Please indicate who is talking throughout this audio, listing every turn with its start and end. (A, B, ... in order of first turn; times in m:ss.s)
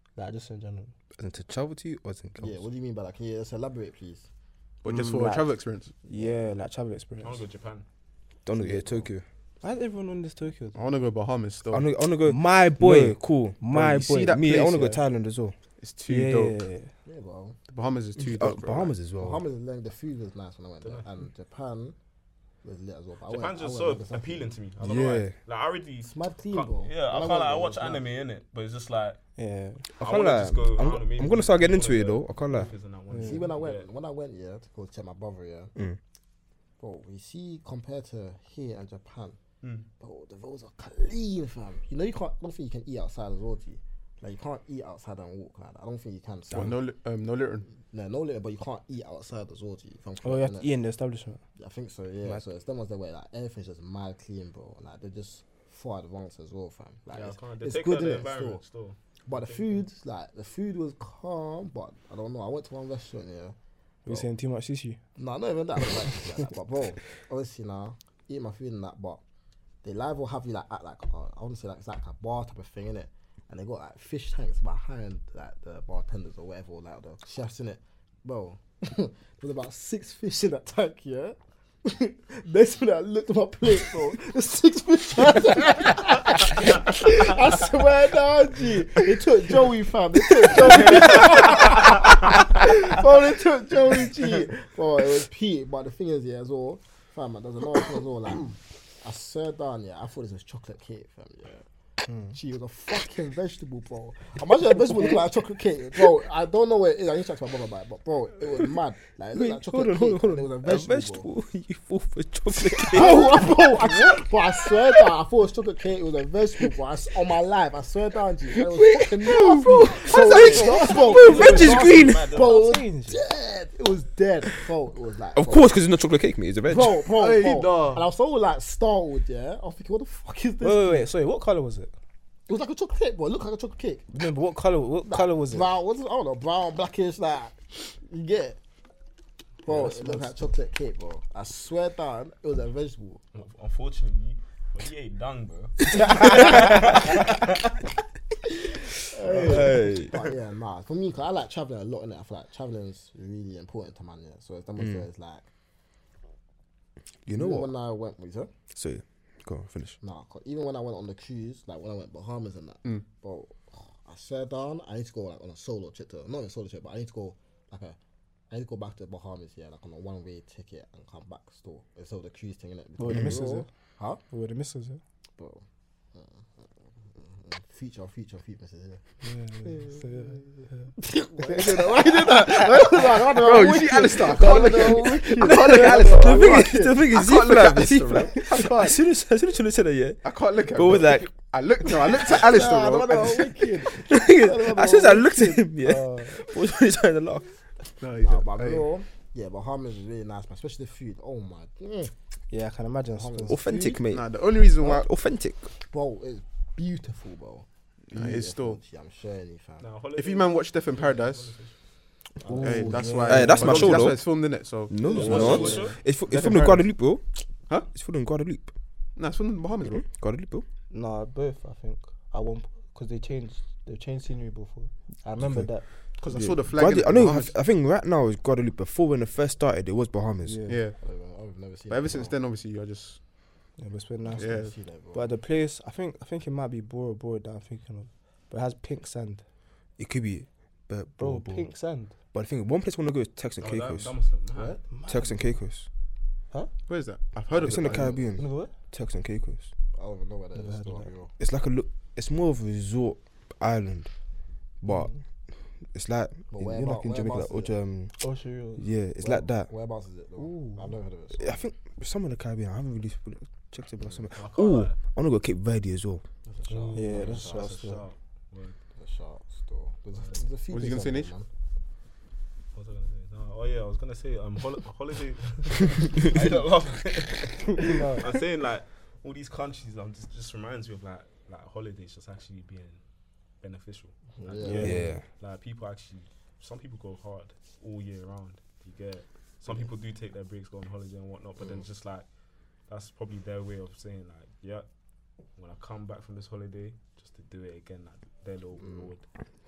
0:00.2-0:00.9 A
0:01.2-0:02.6 B
0:02.4-0:04.3 C
0:04.8-0:05.9 D
0:04.9-0:05.5 A
0:06.0-0:06.4 C
0:06.1-0:07.4 A
0:07.2-0:07.8 E
0:08.5-0:09.2 B
0:09.6-0:10.8 A
0:10.8-0:11.9 D
0:11.7-0:15.6 B
0:12.2-0:15.0 A
0:13.7-0:14.9 D
0:15.8-0:16.6 D
0:16.1-0:16.9 A
0:17.1-0:17.6 C
0:17.7-0:19.0 D
0:18.2-0:19.4 B
0:19.2-0:22.0 C
0:22.6-0:24.5 C
0:23.3-0:29.2 E
0:24.8-0:25.4 B
0:26.1-0:28.0 C
0:29.4-0:29.8 A
0:30.0-0:32.7 B
0:30.0-0:33.9 E
0:33.1-0:33.5 A
0:33.2-0:35.7 C
0:36.8-0:39.4 C
0:39.6-0:39.9 E
0:40.0-0:46.8 C
0:46.5-0:47.7 D
0:47.9-0:50.7 C
0:50.2-0:51.4 A
0:51.6-0:58.6 C
0:57.1-0:59.8 E
0:59.3-1:03.6 C
1:04.1-1:05.0 A
1:05.2-1:09.2 C
1:09.8-1:41.6 C
1:30.8-1:31.2 A
1:31.2-1:31.6 E
1:42.1-1:42.4 A
1:42.3-1:51.3 C
1:49.3-1:53.9 B
1:52.8-1:54.1 A
1:52.9-2:05.8 C
1:58.7-2:02.3 B
2:00.2-2:02.7 E
2:01.1-2:03.2 A
2:05.4-2:07.1 B
2:06.7-2:11.1 C
2:07.2-2:08.0 D
2:10.6-2:11.9 A
2:12.5-2:14.1 C
2:14.1-2:15.7 A
2:15.1-2:18.6 C
2:19.6-2:23.2 C
2:19.9-2:20.3 A
2:23.3-2:27.5 E
2:26.2-2:26.7 A
2:29.0-2:35.5 C
2:29.4-2:30.1 B
2:34.8-2:35.1 B
2:37.2-2:37.7 B
2:37.3-2:38.5 C
2:38.7-2:40.0 B
2:40.0-2:48.0 C
2:48.5-2:54.2 C
2:53.0-2:53.7 A
2:53.1-2:53.4 B
2:54.2-2:55.0 A
2:55.4-2:59.0 C
2:59.2-3:00.9 A
2:59.6-3:07.0 C
3:01.8-3:11.3 B
3:03.6-3:09.0 D
3:05.5-3:06.3 A
3:10.2-3:13.5 D
3:12.3-3:15.6 C
3:13.9-3:17.5 B
3:15.8-3:16.4 A
3:18.0-3:18.9 D
3:18.2-3:22.1 C
3:22.5-3:23.6 A
3:23.2-3:24.0 C
3:23.5-3:25.7 B
3:24.1-3:25.1 D
3:25.8-3:29.9 C
3:28.1-3:28.8 D
3:29.8-3:31.8 E
3:30.2-3:31.6 D
3:32.4-3:33.1 C
3:32.4-3:34.2 A
3:32.6-3:36.9 D
3:33.2-3:37.2 B
3:35.0-3:36.0 E
3:35.2-3:35.8 C
3:35.2-3:35.9 A
3:37.8-3:38.7 B
3:39.2-3:40.0 D
3:39.8-3:40.6 B
3:40.9-3:46.0 A
3:45.4-3:50.6 B
3:46.2-3:47.6 D
3:50.4-3:50.8 A
3:50.7-3:51.0 D
3:51.0-3:52.4 C
3:51.9-3:53.2 D
3:53.8-3:54.4 A
3:54.3-3:55.3 C
3:54.4-3:54.8 D
3:55.1-3:59.4 A
4:00.0-4:01.7 B
4:01.2-4:02.2 A
4:02.3-4:04.1 B
4:03.6-4:04.8 E
4:04.5-4:04.8 C
4:04.9-4:05.5 A
4:05.1-4:05.9 B
4:06.9-4:08.3 D
4:07.6-4:09.7 B
4:07.9-4:08.7 A
4:09.9-4:11.3 C
4:10.6-4:11.1 A
4:11.4-4:14.1 B
4:14.8-4:15.1 B
4:14.9-4:15.2 A
4:15.8-4:18.2 B
4:16.5-4:17.8 C
4:18.2-4:18.8 A
4:18.8-4:19.7 B
4:19.2-4:21.7 C
4:20.4-4:21.0 A
4:21.3-4:26.2 B
4:24.0-4:24.3 C
4:24.4-4:25.0 E
4:26.5-4:27.9 C
4:26.7-4:28.8 E
4:26.9-4:28.0 A
4:29.0-4:31.5 C
4:30.7-4:31.3 D
4:32.7-4:43.0 E
4:37.7-4:38.3 A
4:43.6-4:52.3 E
4:44.4-4:45.0 C
4:44.6-4:45.1 A
4:44.8-4:45.2 B
4:52.9-4:54.9 E
4:55.5-4:59.3 E
4:58.8-4:59.1 C